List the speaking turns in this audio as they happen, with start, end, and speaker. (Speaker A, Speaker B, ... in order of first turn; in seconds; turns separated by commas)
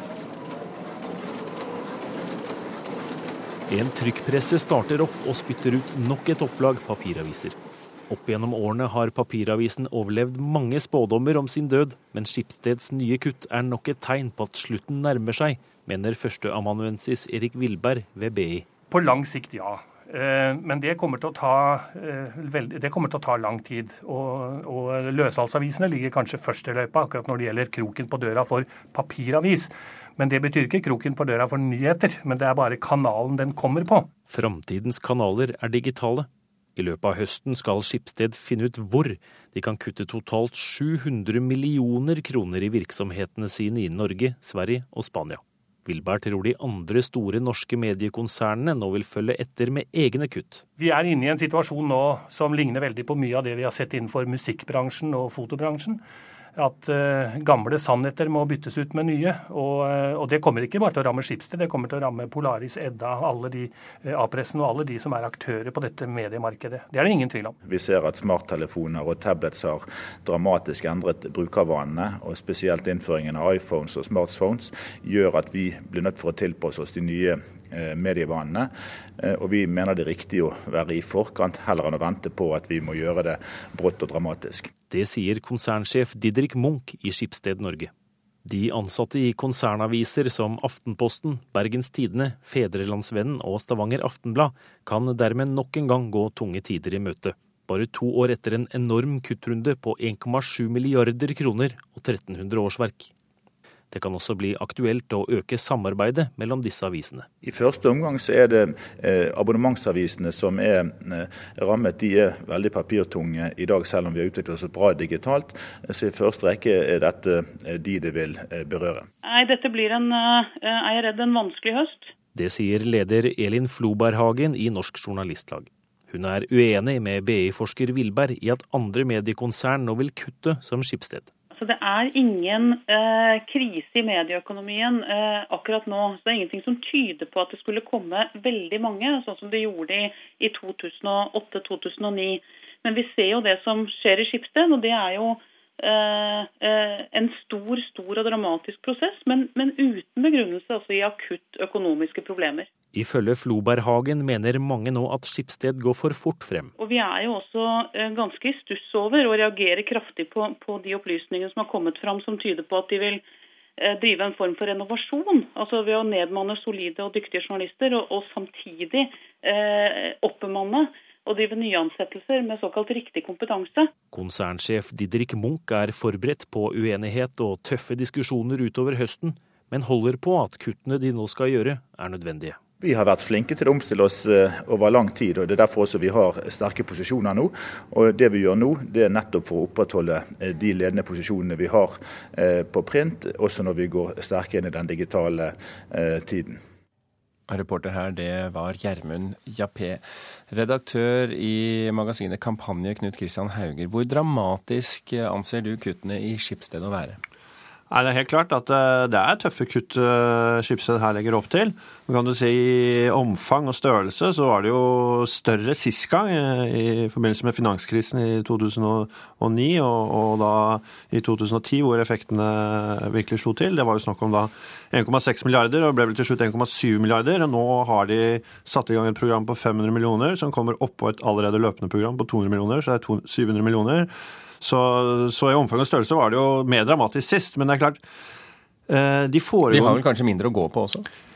Speaker A: 3.7-7.6, Speaker A: 8.1-18.7, Speaker B: 18.9-34.1, Speaker A: 34.3-50.6, Speaker B: 50.8-56.0, Speaker B: 56.6-67.5, Speaker C: 67.7-84.7, Speaker A: 84.9-87.9, Speaker A: 88.5-103.1, Speaker A: 103.9-107.3, Speaker C: 107.4-119.1, Speaker D: 119.2-122.1, Speaker A: 122.3-131.3, Speaker D: 131.5-152.7, Speaker A: 152.9-156.7, Speaker D: 156.8-163.2, Speaker D: 163.8-173.9, Speaker A: 174.1-182.6, Speaker C: 182.8-196.6, Speaker E: 197.5-207.2, Speaker F: 207.9-238.0, Speaker F: 238.9-240.0, Speaker E: 239.7-241.1